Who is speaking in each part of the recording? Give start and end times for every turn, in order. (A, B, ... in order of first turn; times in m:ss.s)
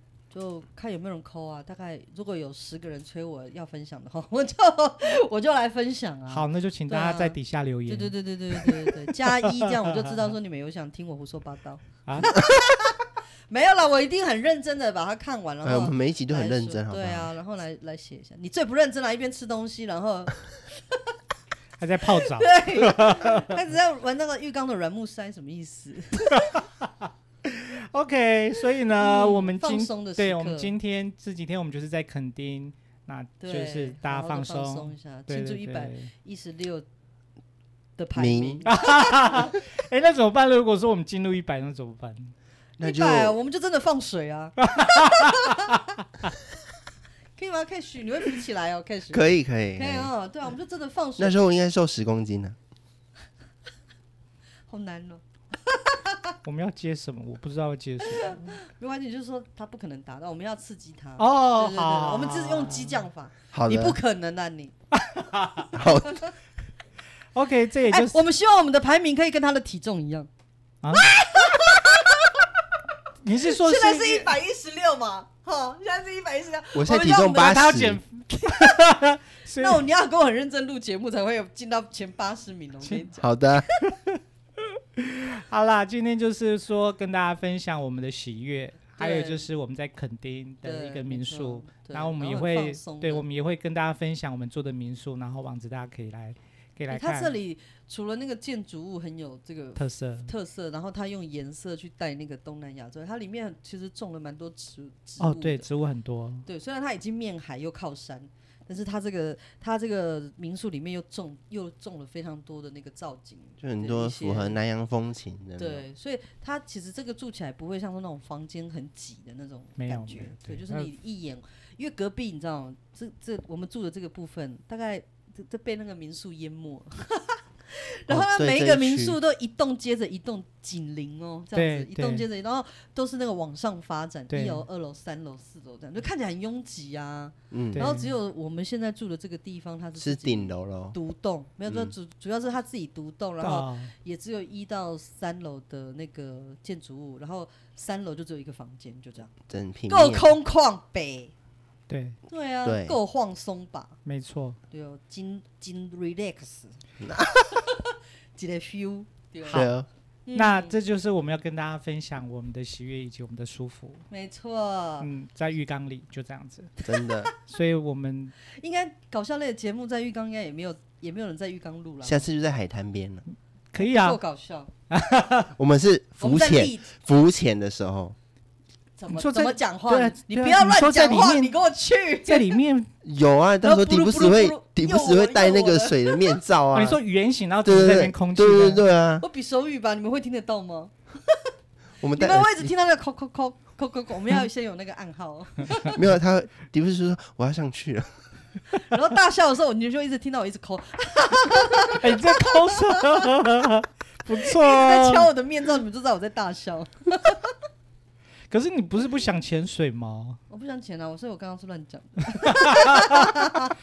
0:00.3-0:20.3 A
0:06.3-0:08.9 B
0:09.4-0:10.1 B
0:15.6-0:17.3 C
0:21.8-0:23.5 B
0:22.1-0:26.5 A
0:27.4-0:36.1 B
0:28.9-0:30.7 A
0:33.4-0:36.8 A
0:38.0-0:39.5 A
0:38.2-0:38.7 C
0:38.6-0:42.3 B
0:42.8-0:43.4 C
0:42.8-0:45.8 A
0:44.6-0:45.7 B
0:47.4-0:51.4 A
0:49.1-0:50.1 C
0:51.2-0:52.6 C
0:54.7-0:56.3 A
0:56.4-0:58.4 B
0:58.1-1:04.7 A
1:01.2-1:03.0 B
1:03.5-1:04.0 C
1:05.0-1:05.7 B
1:05.7-1:06.2 C
1:05.8-1:06.3 A
1:07.3-1:08.2 B
1:07.9-1:10.3 A
1:10.9-1:12.3 A
1:13.2-1:14.3 B
1:13.5-1:17.7 A
1:16.7-1:18.0 C
1:17.3-1:19.8 B
1:18.5-1:18.8 A
1:19.5-1:23.3 A
1:22.8-1:23.1 B
1:23.2-1:23.6 C
1:23.8-1:24.1 B
1:25.0-1:37.3 B
1:29.0-1:29.5 A
1:30.6-1:33.2 A
1:36.9-1:45.7 A
1:39.8-1:40.3 B
1:45.2-1:46.4 B
1:46.4-1:54.6 A
1:53.6-1:55.8 C
1:55.6-2:29.3 A
1:59.8-2:00.9 B
2:08.1-2:09.2 C
2:11.5-2:12.2 B
2:14.3-2:14.6 B
2:17.5-2:17.8 C
2:17.7-2:18.1 B
2:20.0-2:21.0 C
2:21.6-2:21.9 C
2:23.4-2:23.9 B
2:29.5-2:30.3 C
2:29.9-2:31.3 A
2:31.9-2:32.2 B
2:32.3-2:34.0 A
2:32.6-2:33.0 C
2:34.0-2:34.6 B
2:34.7-2:36.8 A
2:37.0-2:37.3 C
2:37.5-2:39.7 A
2:39.5-2:39.8 B
2:39.5-2:39.9 C
2:40.3-2:40.8 A
2:40.3-2:44.0 B
2:44.1-2:45.1 A
2:45.0-2:46.7 B
2:46.8-2:47.3 C
2:47.5-2:48.3 B
2:48.5-2:52.2 A
2:52.0-2:53.2 C
2:53.7-2:54.2 B
2:53.8-2:54.7 A
2:54.9-2:55.5 B
2:55.6-2:58.1 C
2:56.2-2:56.9 A
2:59.0-3:02.5 A
2:59.1-3:01.5 B
3:02.2-3:02.9 B
3:03.0-3:07.0 C
3:03.6-3:06.4 A
3:06.7-3:08.8 B
3:07.6-3:09.2 C
3:09.2-3:11.4 A
3:12.0-3:12.7 C
3:12.1-3:15.9 A
3:15.9-3:18.1 C
3:18.9-3:23.2 A
3:21.9-3:25.3 B
3:24.3-3:27.5 A
3:28.5-3:30.4 B
3:30.5-3:33.7 A
3:32.4-3:33.6 B